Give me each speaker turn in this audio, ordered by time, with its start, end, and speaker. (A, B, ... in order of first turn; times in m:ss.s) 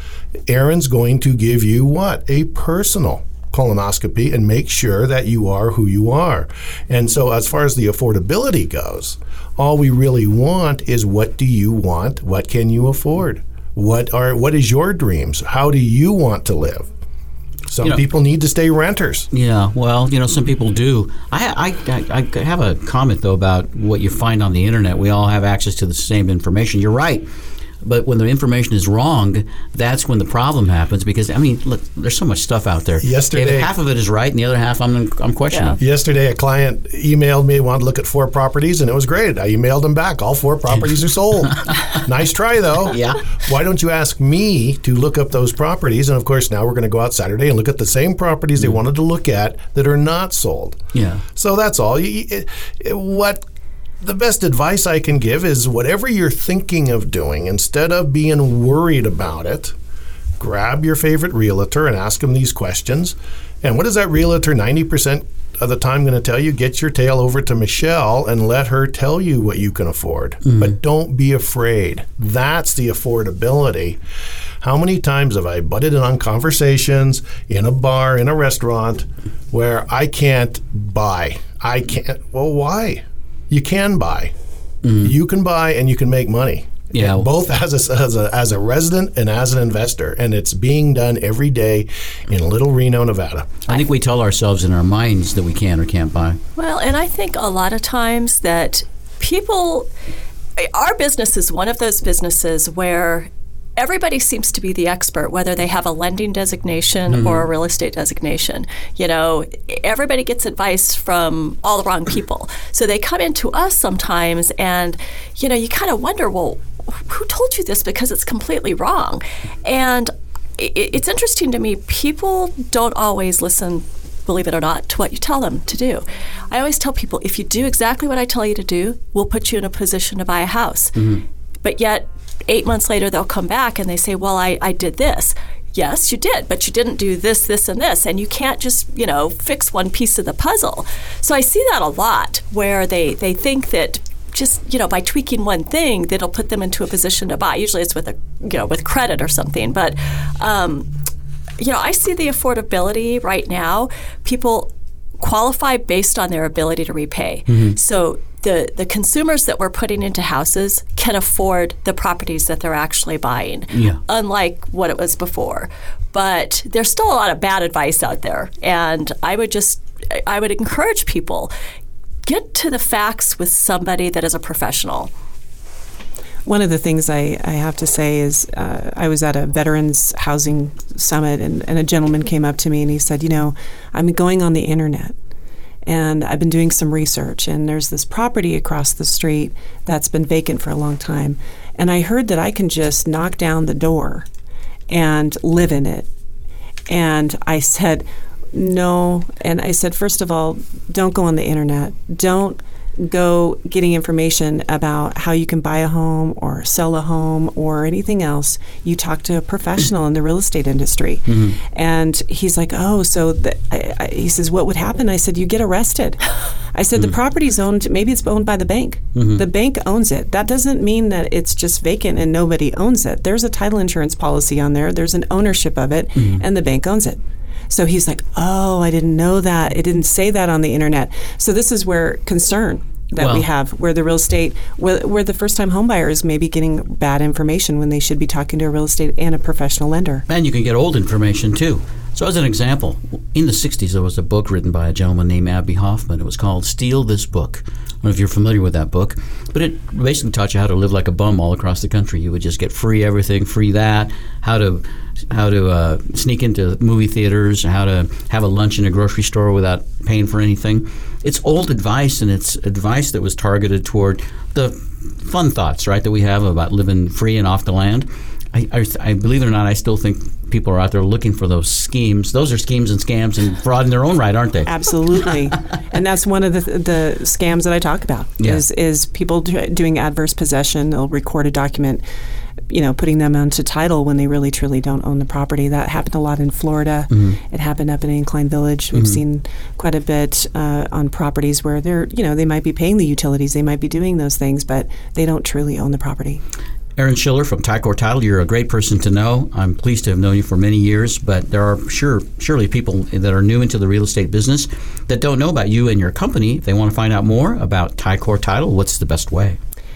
0:00.5-0:16.9 A
0:17.7-0:19.3 A
0:19.3-0:27.2 B
0:27.8-0:35.8 B
0:33.0-0:33.7 A
0:35.8-0:50.8 A
0:41.6-0:42.0 B
0:42.9-0:43.2 B
0:50.9-0:51.2 B
0:51.3-0:53.4 A
0:54.0-0:59.7 A
1:00.4-1:14.0 A
1:10.4-1:10.7 B
1:14.6-1:24.3 A
1:24.8-1:25.1 B
1:25.0-1:33.5 A
1:26.9-1:27.3 B
1:33.7-1:36.4 B
1:36.6-1:39.9 C
1:40.6-2:11.0 C
1:47.1-1:47.4 B
2:11.0-2:11.2 B
2:11.6-2:30.9 C
2:31.6-2:51.5 C
2:37.5-2:37.8 B
2:43.7-2:44.0 B
2:52.2-2:55.1 C
2:56.4-3:05.1 D
3:05.8-3:14.2 D
3:14.9-3:16.1 D
3:16.9-4:00.2 D
3:31.3-3:31.6 B
3:39.1-3:39.4 B
3:46.2-3:46.4 B
3:53.2-3:53.4 B
4:00.3-4:34.7 B
4:34.6-4:42.0 D
4:42.7-4:56.4 D
4:47.1-4:47.4 B
4:48.9-4:49.2 B
4:57.0-5:09.6 B